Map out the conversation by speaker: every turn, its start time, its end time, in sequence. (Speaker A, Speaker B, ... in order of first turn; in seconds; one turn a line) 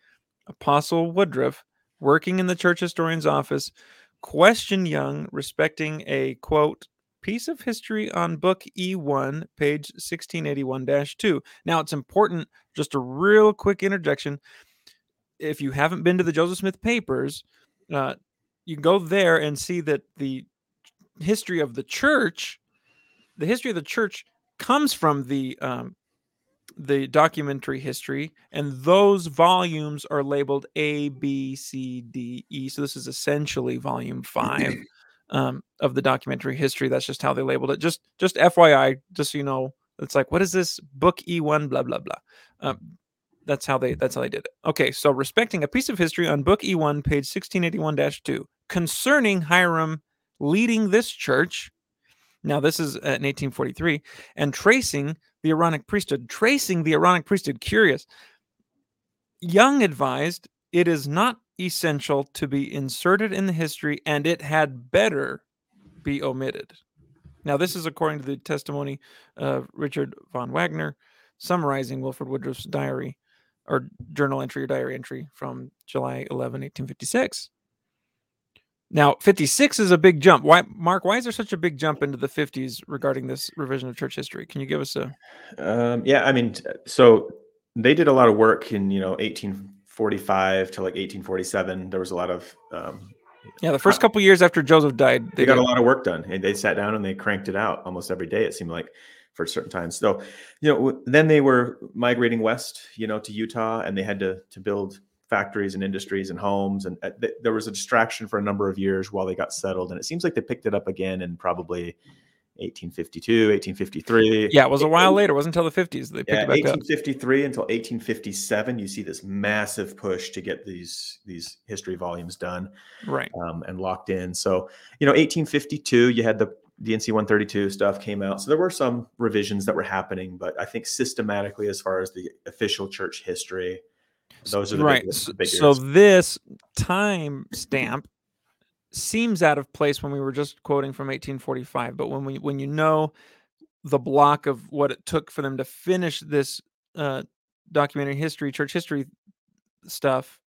Speaker A: 0.5-14.4
Speaker A: 15.4-20.4
Speaker A: 21.2-22.6
Speaker A: 23.4-25.9
Speaker A: 26.8-42.9
Speaker A: 43.5-51.7
Speaker A: 52.4-58.0
Speaker A: 59.4-65.4
Speaker A: 66.0-66.8
Speaker A: 67.4-77.5
Speaker A: 78.9-85.1
Speaker B: 85.5-93.1
Speaker A: 93.6-95.7
Speaker B: 95.4-112.0
Speaker B: 112.6-115.1
Speaker A: 114.5-116.8
Speaker B: 116.3-122.7
Speaker A: 123.0-123.3
Speaker B: 123.3-133.8
Speaker B: 134.4-135.8
Speaker A: 134.5-138.1
Speaker A: 138.9-143.1
Speaker A: 143.8-149.1
Speaker A: 149.8-150.4